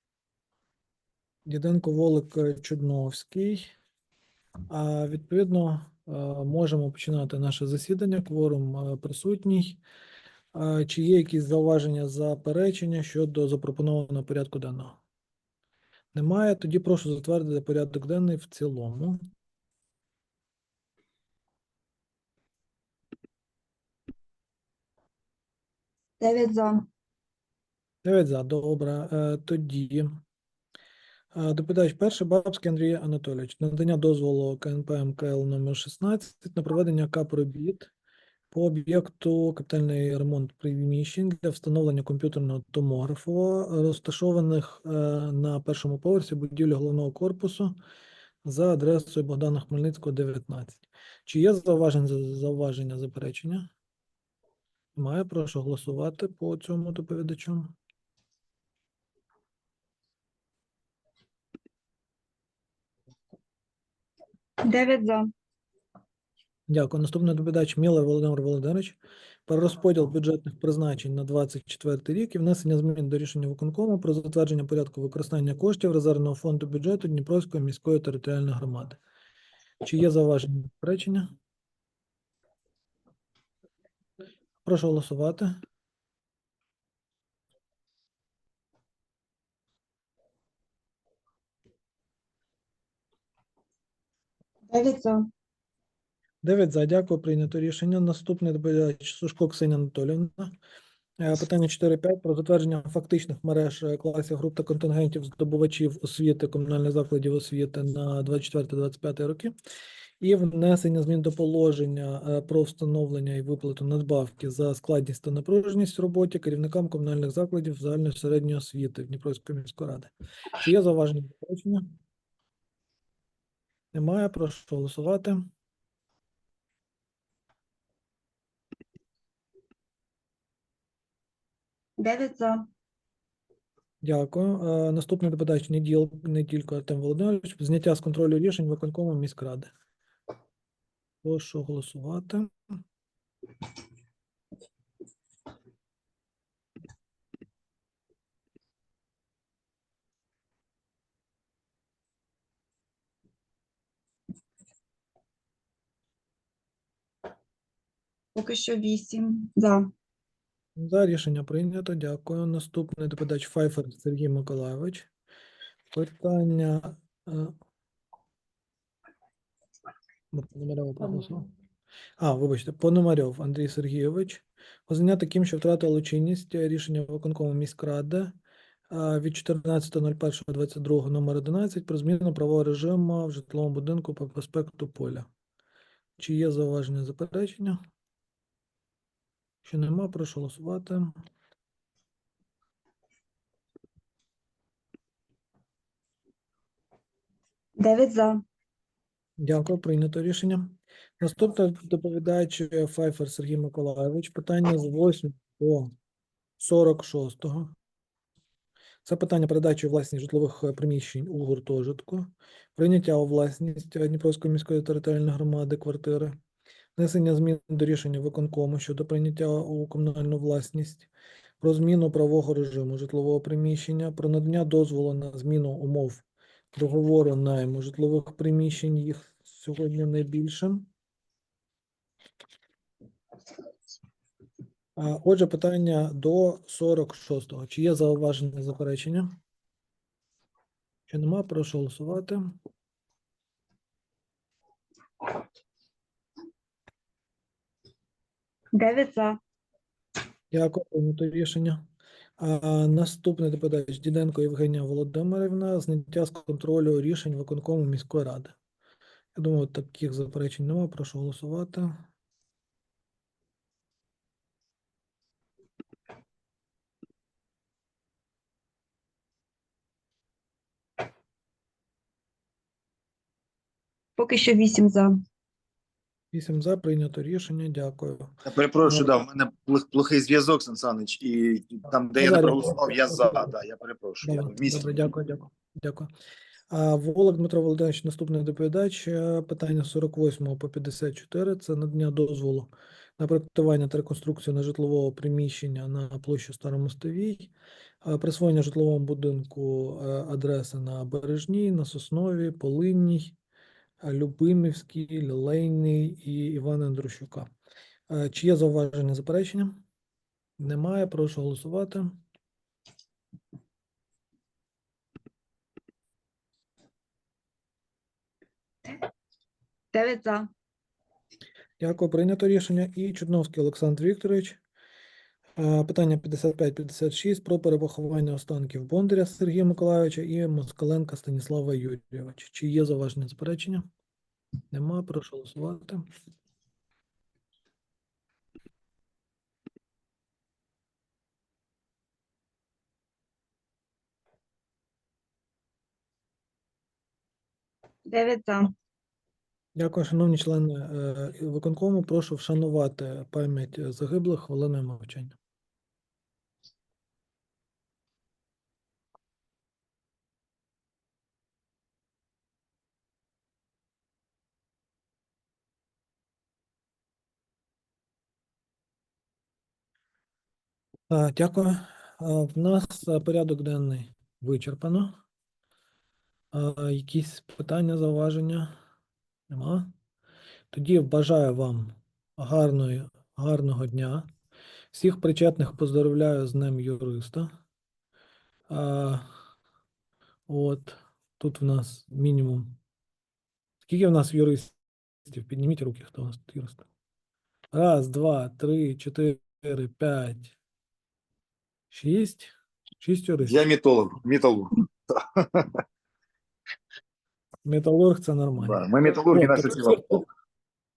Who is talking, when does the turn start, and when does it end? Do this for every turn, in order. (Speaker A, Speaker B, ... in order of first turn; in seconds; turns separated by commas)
Speaker A: 1.4-3.7, Speaker A: 4.7-9.8, Speaker A: 10.5-15.0, Speaker A: 16.1-19.2, Speaker B: 26.2-26.9, Speaker A: 28.0-30.1, Speaker A: 31.3-37.9, Speaker A: 38.5-47.7, Speaker A: 48.4-53.7, Speaker A: 54.9-57.8, Speaker B: 64.6-65.3, Speaker A: 66.7-79.0, Speaker A: 79.8-81.3, Speaker A: 84.6-85.6, Speaker B: 94.7-95.3, Speaker A: 96.4-100.5, Speaker A: 101.2-109.5, Speaker A: 110.2-121.8, Speaker A: 123.9-125.5, Speaker B: 132.0-132.7, Speaker A: 134.0-139.7, Speaker A: 141.2-142.5, Speaker B: 158.3-159.9, Speaker A: 160.8-165.1, Speaker A: 165.9-167.5, Speaker A: 170.3-171.5, Speaker A: 172.2-178.3, Speaker A: 178.9-185.3, Speaker A: 186.2-187.8, Speaker A: 189.6-191.1, Speaker B: 197.8-198.4, Speaker A: 199.4-205.9, Speaker A: 206.6-207.7, Speaker A: 209.0-216.3, Speaker A: 216.9-221.1, Speaker A: 221.6-226.2, Speaker A: 226.7-230.9, Speaker A: 235.0-239.3, Speaker A: 241.1-242.5, Speaker B: 248.7-249.4, Speaker A: 250.5-251.8, Speaker A: 252.4-258.5, Speaker A: 259.3-262.1, Speaker B: 274.2-275.1, Speaker A: 276.3-279.2, Speaker C: 278.4-284.9, Speaker A: 282.2-283.5, Speaker A: 284.2-286.1, Speaker A: 286.7-297.5, Speaker A: 298.0-303.4, Speaker A: 304.0-307.5, Speaker A: 308.1-309.8, Speaker A: 310.6-312.2, Speaker B: 319.9-320.5, Speaker A: 321.8-324.6, Speaker A: 325.6-333.9, Speaker A: 334.7-336.1, Speaker B: 348.1-348.7, Speaker A: 349.8-355.4, Speaker A: 371.1-375.1, Speaker A: 376.5-378.7, Speaker A: 379.5-379.9, Speaker A: 380.7-384.3, Speaker A: 384.9-387.5, Speaker A: 388.7-389.3, Speaker A: 390.5-392.8, Speaker A: 393.8-396.9, Speaker A: 397.7-400.6, Speaker A: 401.9-403.6, Speaker C: 403.4-405.8, Speaker A: 407.6-410.2, Speaker C: 408.6-410.2